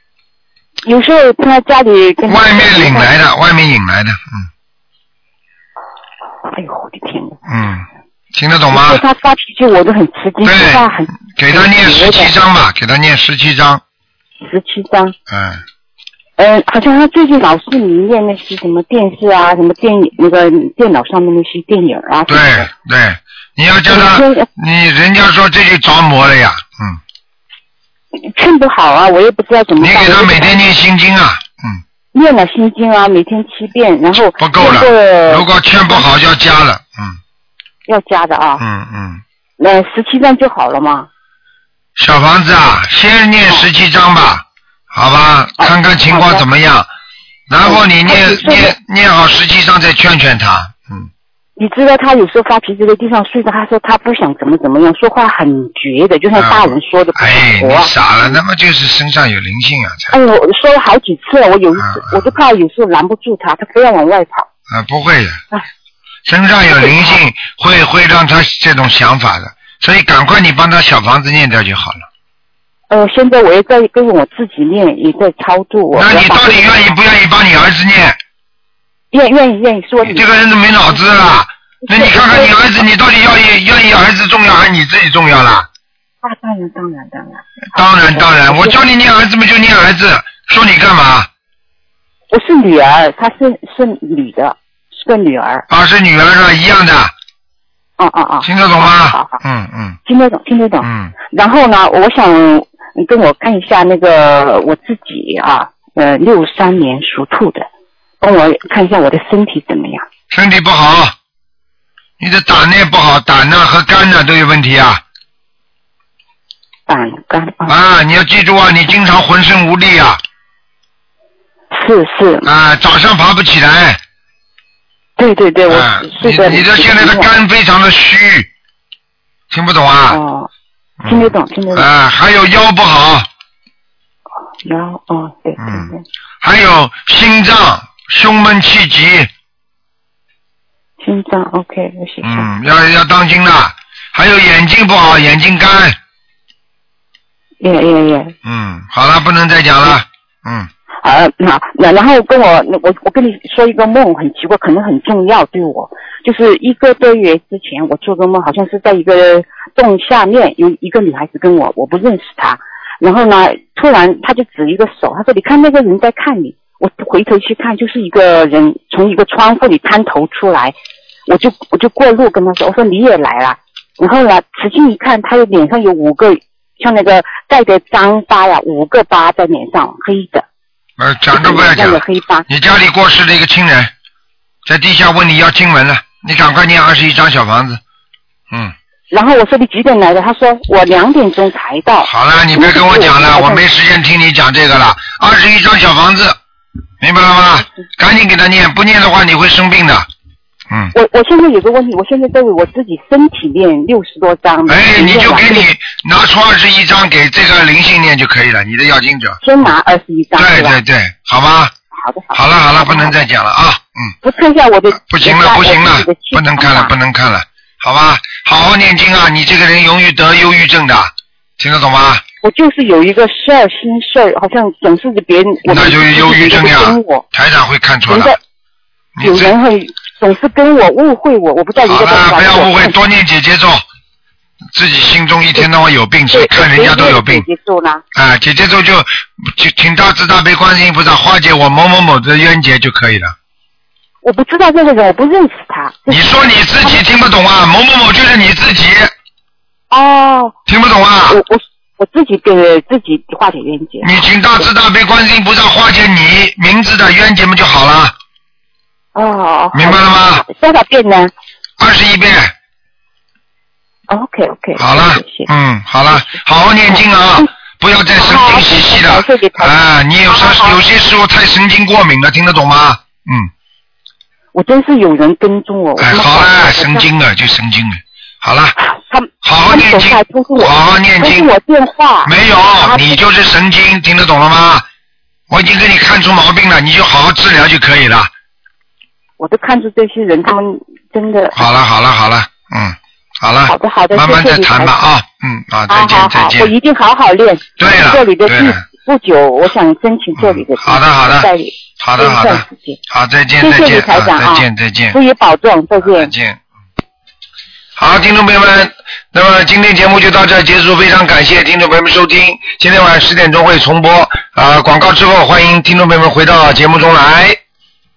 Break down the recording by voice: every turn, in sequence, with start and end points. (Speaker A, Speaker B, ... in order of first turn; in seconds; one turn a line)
Speaker A: 0.8-3.2
Speaker B: 2.3-4.5
Speaker A: 6.5-7.4
Speaker B: 7.5-9.0
Speaker A: 8.7-12.3
Speaker B: 10.4-13.8
Speaker A: 14.4-15.2
Speaker B: 15.3-15.6
Speaker A: 16.4-22.7
Speaker B: 22.3-27.0
Speaker A: 23.9-24.5
Speaker A: 28.1-30.6
Speaker B: 29.8-31.8
Speaker A: 32.1-36.1
Speaker B: 34.4-37.2
Speaker A: 37.9-38.6
Speaker B: 38.6-39.2
Speaker A: 39.6-41.1
Speaker B: 42.0-46.9
Speaker A: 45.6-46.5
Speaker B: 47.5-51.1
Speaker A: 47.6-48.8
Speaker A: 51.6-58.4
Speaker B: 56.4-60.1
Speaker A: 60.1-64.5
Speaker B: 61.8-62.3
Speaker B: 64.7-65.4
Speaker B: 66.3-72.0
Speaker A: 66.7-67.2
Speaker A: 72.9-76.7
Speaker B: 75.9-78.2
Speaker A: 79.1-80.3
Speaker B: 80.0-85.7
Speaker A: 81.8-82.5
Speaker A: 86.2-88.8
Speaker B: 87.7-91.3
Speaker A: 92.3-95.7
Speaker B: 95.7-97.1
Speaker A: 98.0-99.4
Speaker B: 98.4-100.0
Speaker A: 100.1-107.7
Speaker B: 100.8-101.2
Speaker A: 108.2-110.1
Speaker B: 110.3-111.2
Speaker B: 112.2-115.0
Speaker A: 116.9-117.8
Speaker B: 117.7-120.2
Speaker A: 121.7-122.5
Speaker B: 122.5-124.0
Speaker A: 125.2-127.3
Speaker B: 125.7-128.5
Speaker B: 129.5-130.2
Speaker A: 130.1-130.5
Speaker B: 131.0-133.3
Speaker A: 131.1-131.9
Speaker A: 134.6-136.0
Speaker B: 135.6-139.3
Speaker A: 141.0-142.5
Speaker B: 142.2-146.0
Speaker A: 147.6-148.3
Speaker B: 148.4-150.7
Speaker A: 151.0-170.8
Speaker A: 171.3-180.5
Speaker B: 181.0-183.9
Speaker A: 181.3-182.5
Speaker B: 184.7-187.8
Speaker A: 189.1-193.6
Speaker B: 192.0-196.4
Speaker B: 197.0-200.1
Speaker A: 200.9-205.7
Speaker B: 204.7-209.7
Speaker A: 209.4-210.8
Speaker B: 210.4-211.7
Speaker A: 211.9-213.2
Speaker B: 212.3-214.1
Speaker A: 214.2-216.9
Speaker B: 214.9-222.2
Speaker A: 222.4-227.3
Speaker B: 225.7-228.4
Speaker A: 228.1-228.4
Speaker B: 229.2-229.5
Speaker A: 229.2-233.0
Speaker B: 231.8-233.8
Speaker B: 234.7-237.5
Speaker A: 236.3-238.0
Speaker B: 238.1-243.3
Speaker A: 244.2-247.0
Speaker B: 246.1-249.1
Speaker A: 249.9-250.6
Speaker B: 250.7-251.4
Speaker A: 251.3-254.7
Speaker B: 254.0-258.1
Speaker A: 259.1-261.3
Speaker B: 259.7-260.4
Speaker B: 261.8-262.5
Speaker A: 264.1-265.5
Speaker B: 264.8-273.5
Speaker A: 266.1-267.5
Speaker A: 268.2-269.7
Speaker A: 270.3-270.8
Speaker A: 274.5-277.1
Speaker B: 276.0-278.8
Speaker A: 278.8-283.2
Speaker B: 279.4-281.5
Speaker B: 282.2-284.9
Speaker B: 285.5-288.3
Speaker A: 289.4-291.7
Speaker B: 291.6-296.7
Speaker A: 293.7-295.0
Speaker A: 295.9-303.0
Speaker B: 297.8-298.9
Speaker B: 300.4-305.2
Speaker A: 303.6-306.3
Speaker B: 306.0-306.6
Speaker B: 308.0-317.6